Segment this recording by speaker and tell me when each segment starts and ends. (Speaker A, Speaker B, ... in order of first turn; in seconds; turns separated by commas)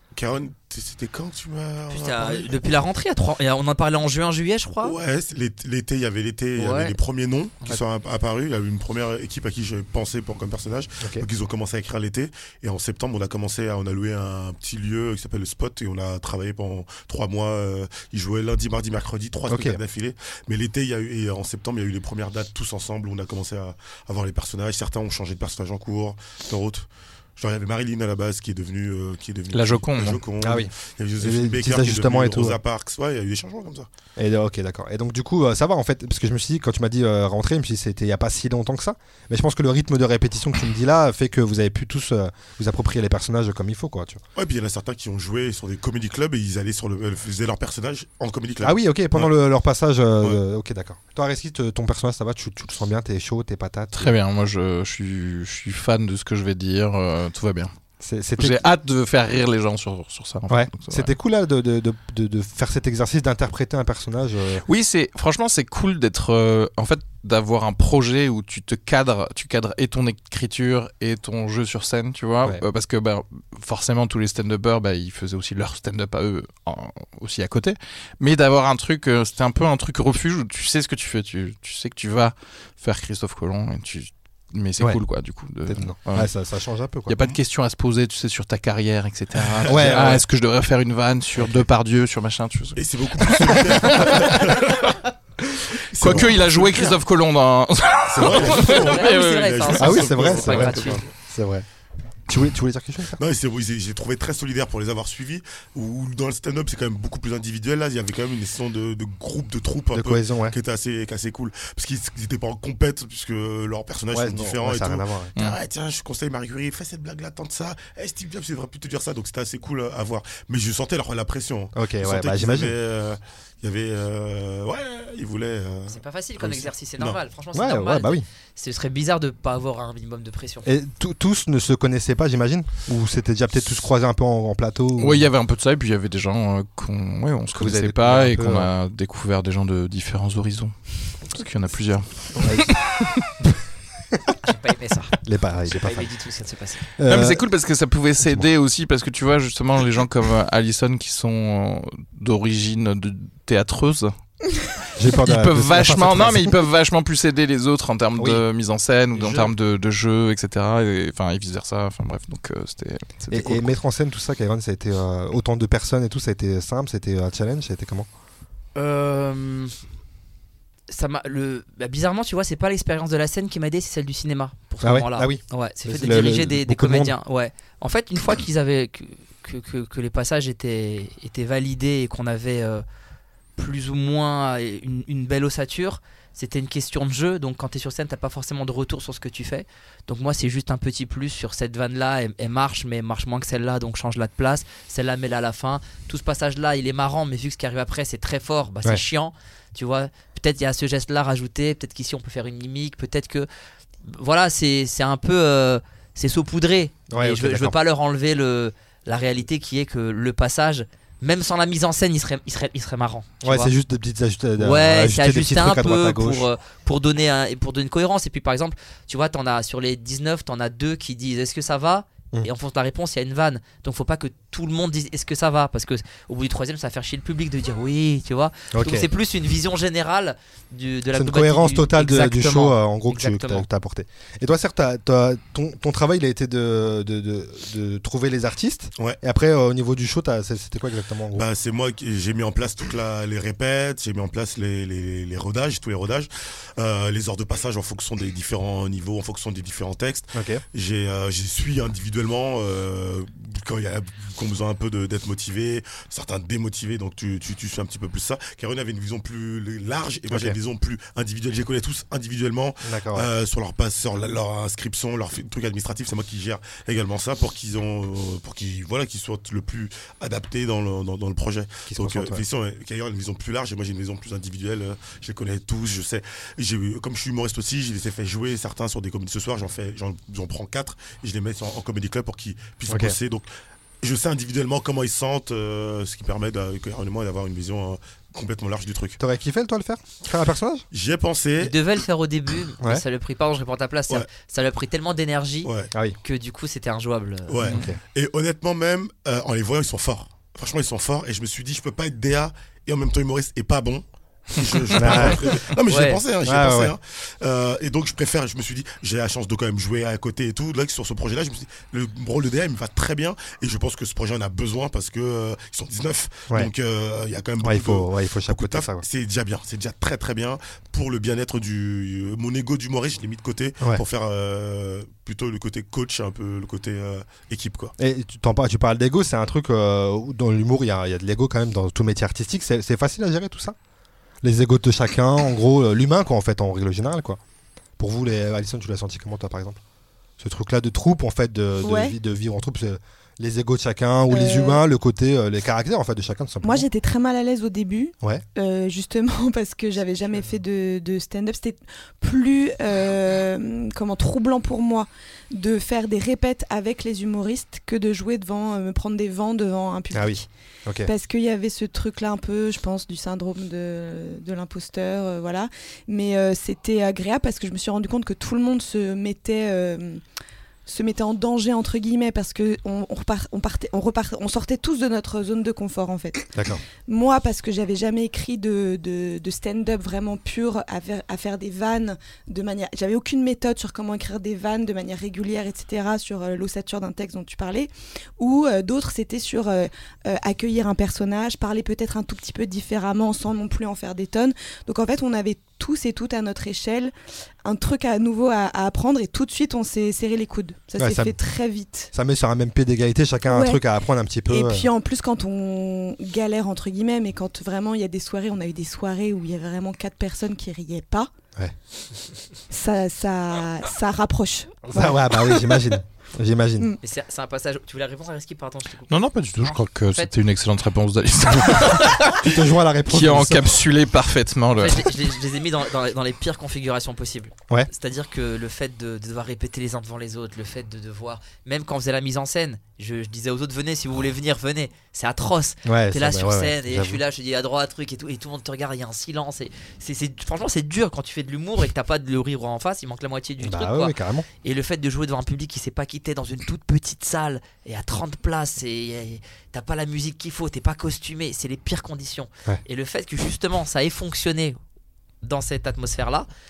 Speaker A: 0.1-2.6, Speaker B: 1.9-5.0, Speaker A: 4.8-33.9, Speaker B: 6.6-7.0, Speaker C: 19.5-19.8, Speaker D: 29.5-30.2, Speaker C: 30.4-32.6, Speaker C: 34.2-44.2, Speaker A: 44.4-49.3, Speaker C: 48.6-54.1, Speaker D: 54.0-57.7, Speaker C: 58.0-58.7, Speaker D: 58.4-61.1, Speaker C: 60.5-64.7, Speaker D: 64.7-86.3, Speaker C: 85.7-87.2, Speaker D: 87.1-94.9, Speaker A: 89.6-90.1, Speaker C: 89.7-90.2, Speaker A: 92.8-94.9, Speaker A: 95.9-97.0, Speaker D: 96.0-99.9, Speaker A: 98.1-101.1, Speaker B: 98.2-101.0, Speaker C: 99.8-101.7, Speaker C: 102.3-103.2, Speaker A: 103.2-127.2, Speaker C: 109.9-110.6, Speaker C: 114.1-115.3, Speaker C: 121.8-122.8, Speaker B: 125.9-130.7, Speaker C: 127.5-128.3, Speaker C: 130.7-135.3, Speaker D: 135.0-143.3, Speaker C: 137.5-138.7, Speaker C: 142.4-142.7, Speaker B: 144.4-145.2, Speaker C: 145.2-146.1, Speaker B: 145.7-146.8, Speaker C: 147.0-147.4, Speaker D: 147.1-154.1, Speaker C: 155.0-156.6, Speaker D: 155.1-163.7, Speaker C: 158.2-158.4, Speaker A: 159.2-159.5, Speaker C: 163.3-168.1, Speaker B: 168.8-169.8, Speaker B: 170.9-182.8, Speaker C: 174.8-177.2, Speaker B: 183.6-203.5, Speaker B: 204.1-213.7, Speaker C: 207.1-207.8, Speaker C: 213.4-216.5, Speaker B: 214.6-233.7, Speaker C: 228.7-229.1, Speaker C: 231.1-241.5, Speaker A: 241.3-283.5, Speaker C: 250.3-250.6, Speaker C: 260.3-260.6, Speaker C: 262.8-263.3, Speaker C: 271.9-272.4, Speaker C: 282.9-283.1, Speaker A: 284.0-289.2, Speaker C: 289.2-290.9, Speaker A: 290.9-291.8, Speaker B: 291.6-297.7, Speaker A: 295.6-295.9, Speaker A: 297.5-327.9, Speaker C: 297.6-298.0, Speaker C: 305.0-305.5, Speaker B: 305.9-306.2, Speaker C: 306.4-306.9, Speaker C: 317.6-319.0, Speaker C: 328.0-333.8, Speaker C: 334.4-337.4, Speaker C: 338.0-339.8, Speaker C: 340.4-346.9, Speaker E: 341.8-342.2, Speaker E: 344.3-344.8, Speaker E: 346.6-360.5, Speaker C: 360.1-361.1, Speaker E: 361.1-370.2, Speaker E: 370.9-376.5, Speaker C: 376.5-376.8, Speaker E: 377.1-397.1, Speaker E: 397.6-402.1, Speaker C: 401.0-401.4, Speaker C: 402.1-404.9, Speaker E: 403.5-403.8, Speaker E: 404.5-411.3, Speaker E: 412.7-416.0, Speaker C: 414.9-416.9, Speaker B: 417.0-420.3, Speaker D: 419.1-425.2, Speaker C: 422.4-423.8, Speaker B: 424.8-454.8, Speaker C: 435.9-437.2, Speaker C: 443.6-444.5, Speaker B: 455.4-456.5